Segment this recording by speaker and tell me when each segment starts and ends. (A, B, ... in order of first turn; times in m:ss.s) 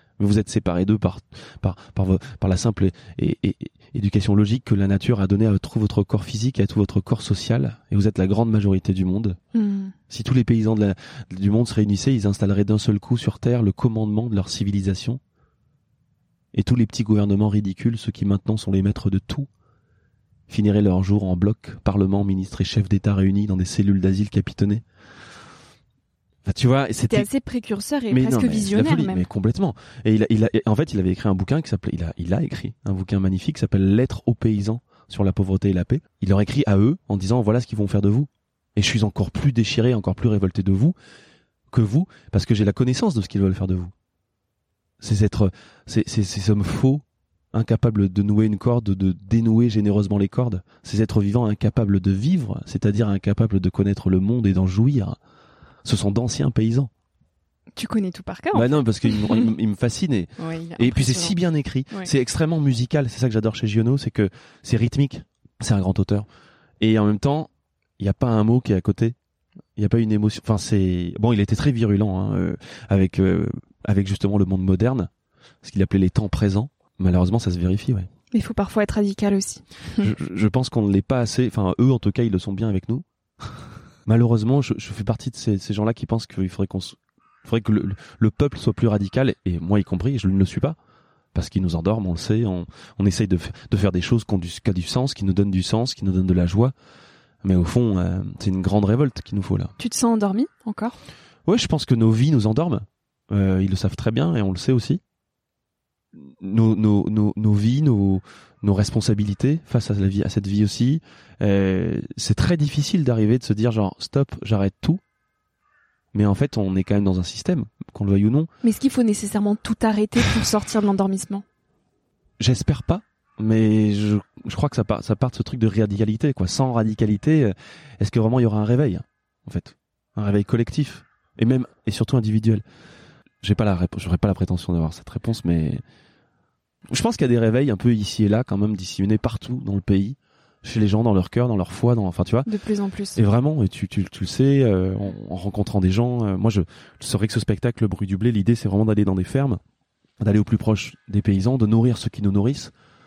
0:00.2-0:09.4 A
0:09.5-0:09.9 B
0:10.1-0:15.2 A
0:16.5-0:19.5 A
0:20.5-0:24.8 A
0:26.4-0:27.3 A
0:27.1-0:29.2 B
0:28.1-0:41.0 A
0:41.7-0:43.9 A
0:45.0-0:55.2 A
0:55.8-0:56.9 A
0:57.8-0:59.5 B
0:58.5-1:06.2 A
1:00.4-1:01.4 B
1:06.8-1:09.2 A
1:09.8-1:15.1 A
1:15.6-1:18.1 A
1:18.3-1:20.1 B
1:20.0-1:30.8 A
1:31.3-1:36.7 A
1:37.4-1:39.7 A
1:39.8-1:41.0 B
1:41.4-1:45.0 A
1:46.2-1:55.0 A
1:56.1-1:58.5 A
1:58.6-2:01.4 B
2:02.4-2:12.6 A
2:13.4-2:15.8 A
2:16.9-2:22.5 A
2:22.4-2:23.2 B
2:23.2-2:29.6 A
2:30.2-2:32.7 A